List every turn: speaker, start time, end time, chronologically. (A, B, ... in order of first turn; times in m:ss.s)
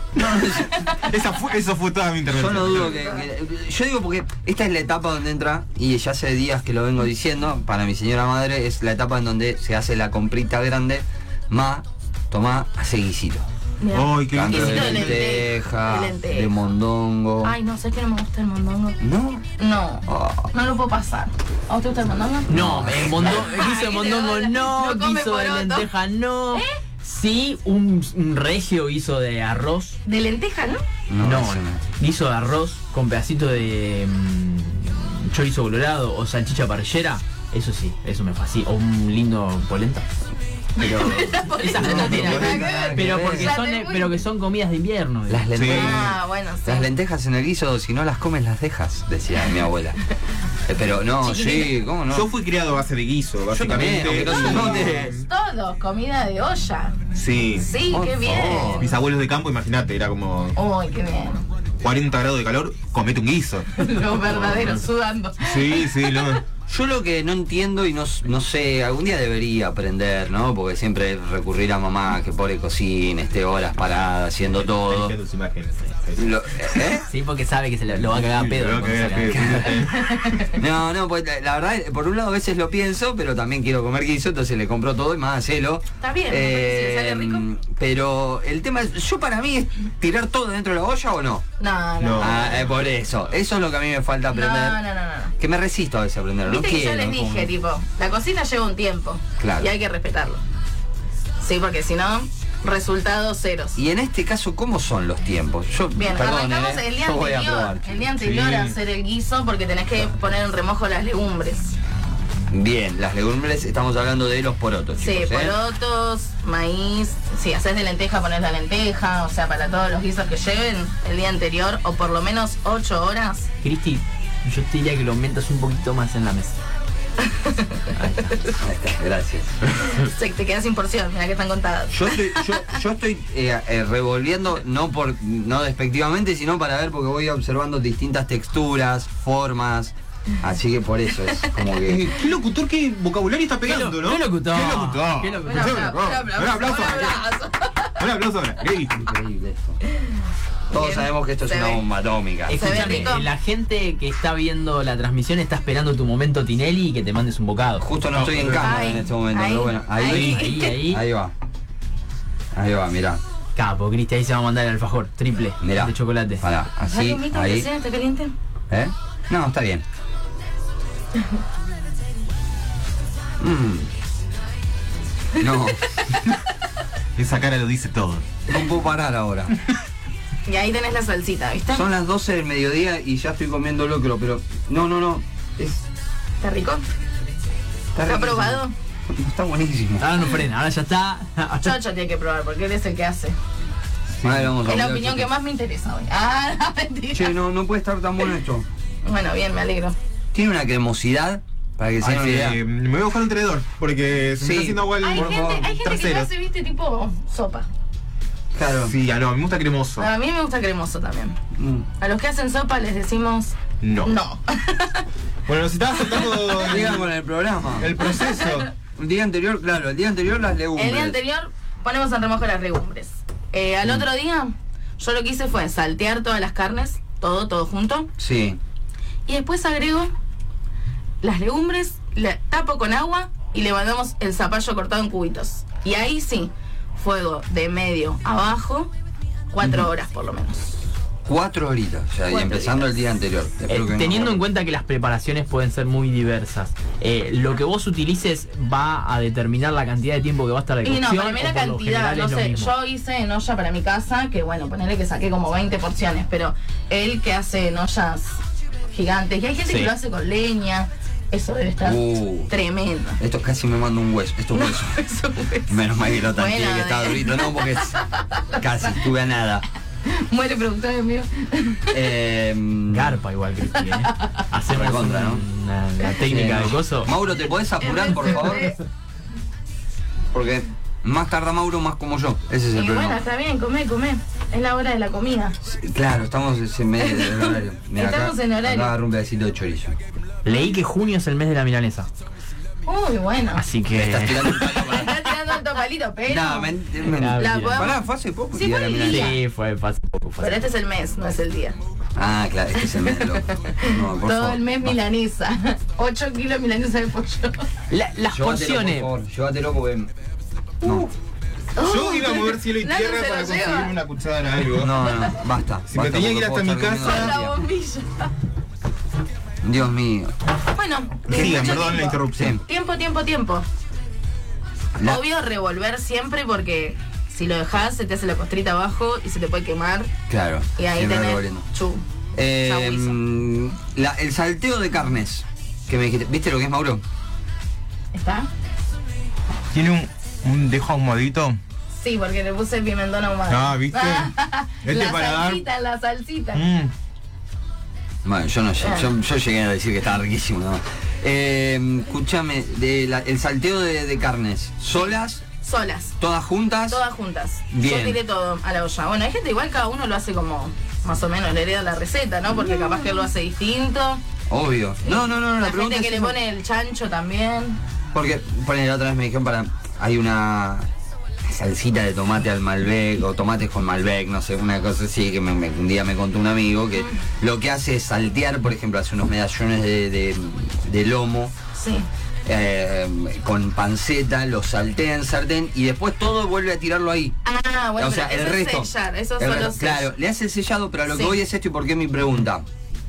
0:00.2-0:01.0 A
0:00.2-0:03.2 B
0:02.3-0:13.4 A
0:13.8-0:16.5 C
0:13.9-0:15.4 B
0:14.3-0:17.5 A
0:17.4-0:19.0 C
0:19.0-0:19.4 A
0:19.6-0:22.6 C
0:20.0-0:20.5 A
0:22.5-0:30.0 D
0:22.5-0:23.5 A
0:23.1-0:25.9 C
0:26.5-0:26.8 C
0:30.0-0:30.8 C
0:31.1-0:31.8 A
0:31.2-0:40.0 D
0:40.8-0:44.2 C
0:40.8-0:43.6 A
0:41.5-0:46.0 D
0:42.0-0:42.7 B
0:45.3-0:46.1 A
0:45.5-0:46.1 B
0:45.7-0:46.9 C
0:46.6-0:50.0 A
0:50.7-0:52.3 A
0:51.2-0:51.8 C
0:52.1-0:55.2 B
0:53.5-0:55.1 A
0:54.3-0:57.0 C
0:57.1-0:57.7 B
0:57.6-0:58.9 C
0:57.9-0:58.8 A
0:58.8-1:00.6 B
1:00.5-1:01.4 C
1:01.8-1:03.7 B
1:03.7-1:06.4 C
1:04.3-1:04.7 B
1:05.4-1:06.4 B
1:06.7-1:15.1 A
1:14.6-1:16.8 B
1:16.2-1:17.1 A
1:17.1-1:19.8 D
1:17.9-1:20.6 B
1:19.3-1:19.8 A
1:20.0-1:20.5 C
1:20.5-1:31.4 A
1:26.0-1:27.4 C
1:31.6-1:32.6 C
1:32.0-1:32.6 B
1:32.2-1:34.8 A
1:34.3-1:35.3 C
1:35.4-1:37.5 A
1:36.4-1:40.4 C
1:39.4-1:39.7 A
1:41.4-1:43.8 C
1:43.8-1:48.0 A
1:46.0-1:51.8 C
1:48.2-1:48.8 B
1:52.5-1:55.6 A
1:55.0-2:03.5 C
2:03.6-2:06.6 D
2:07.2-2:08.5 C
2:08.0-2:08.4 D
2:08.6-2:09.5 A
2:09.8-2:12.6 C
2:11.9-2:22.1 A
2:21.3-2:21.8 C
2:21.8-2:27.2 B
2:23.6-2:26.0 D
2:25.4-2:28.0 C
2:28.0-2:29.1 B
2:28.9-2:29.8 A
2:30.7-2:31.8 C
2:30.7-2:33.1 A
2:32.5-2:37.8 D
2:32.5-2:33.3 C
2:37.8-2:41.3 A
2:38.1-2:38.8 B
2:38.5-2:40.7 C
2:40.0-2:41.0 D
2:42.5-2:43.2 A
2:43.6-2:46.4 D
2:45.6-2:47.7 A
2:46.9-2:48.3 C
2:48.7-2:49.8 A
2:53.4-2:53.9 A
2:55.4-2:56.0 A
2:57.2-2:58.4 B
2:58.5-2:59.5 A
3:00.4-3:01.9 C
3:01.7-3:05.8 A
3:06.4-3:06.8 C
3:07.9-3:10.2 A
3:08.0-3:08.7 C
3:10.0-3:11.8 D
3:11.6-3:13.4 C
3:14.2-3:14.5 B
3:14.2-3:15.3 A
3:14.6-3:17.3 C
3:17.1-3:18.6 A
3:19.0-3:20.0 C
3:20.3-3:22.6 A
3:22.0-3:26.3 B
3:24.4-3:25.7 A
3:25.0-3:27.7 C
3:28.5-3:28.9 A
3:28.7-3:30.1 B
3:30.0-3:31.4 C
3:31.6-3:31.8 A
3:32.0-3:35.0 C
3:33.8-3:34.1 B
3:35.4-3:37.1 B
3:36.1-3:36.5 C
3:36.6-3:37.9 A
3:37.8-3:38.7 B
3:38.0-3:38.7 C
3:39.0-3:41.2 A
3:40.8-3:48.1 C
3:48.2-3:48.6 A
3:49.3-3:50.1 C
3:51.2-3:58.9 C
3:59.5-4:00.8 C
4:01.2-4:04.4 A
4:02.3-4:02.9 C
4:03.7-4:12.7 D
4:10.8-4:23.2 C
4:21.8-4:22.5 A
4:23.2-4:25.0 A
4:24.5-4:29.0 C
4:25.7-4:28.0 A
4:28.6-4:29.6 A
4:30.0-4:32.0 C
4:31.9-4:33.2 A
4:32.9-4:37.1 D
4:33.7-4:34.4 C
4:34.7-4:35.4 A
4:36.2-4:38.7 A
4:37.8-4:38.8 C
4:40.3-4:43.2 A
4:42.7-4:45.5 C
4:45.6-4:50.0 A
4:47.0-4:48.9 C
4:50.4-4:52.1 D
4:52.8-4:53.6 C
4:53.6-4:54.9 D
4:53.9-4:55.2 A
4:54.8-4:56.7 C
4:56.3-4:59.4 A
4:57.0-4:57.9 D
4:57.4-4:58.0 C
4:58.5-4:59.4 C
4:59.1-5:00.6 D
5:00.4-5:01.8 C
5:02.2-5:05.0 A
5:02.8-5:07.7 C
5:07.9-5:09.1 D
5:08.3-5:10.1 A
5:10.8-5:11.1 A
5:10.8-5:11.1 D
5:11.8-5:13.9 C
5:11.8-5:15.2 B
5:14.8-5:17.6 A
5:15.9-5:17.4 B
5:17.0-5:18.3 C
5:19.6-5:20.3 A
5:20.7-5:23.6 C
5:21.3-5:22.6 B
5:21.3-5:22.6 A
5:25.0-5:30.1 C
5:30.3-5:31.6 A
5:30.8-5:32.0 C
5:32.4-5:37.0 A
5:32.6-5:33.2 C
5:38.1-5:38.5 C
5:39.7-5:41.6 B
5:41.9-5:46.6 C
5:43.5-5:45.6 B
5:46.5-5:46.9 B
5:48.2-5:55.4 A
5:48.8-5:49.1 C
5:55.6-5:56.2 C
5:56.2-5:57.0 A
5:56.9-6:04.2 C
5:57.7-5:58.2 A
6:04.5-6:06.4 A
6:05.0-6:07.8 C
6:08.1-6:10.9 A
6:11.4-6:21.5 A
6:21.7-6:22.1 C
6:22.4-6:27.4 A
6:27.4-6:30.1 C
6:28.0-6:32.6 A
6:31.1-6:31.4 C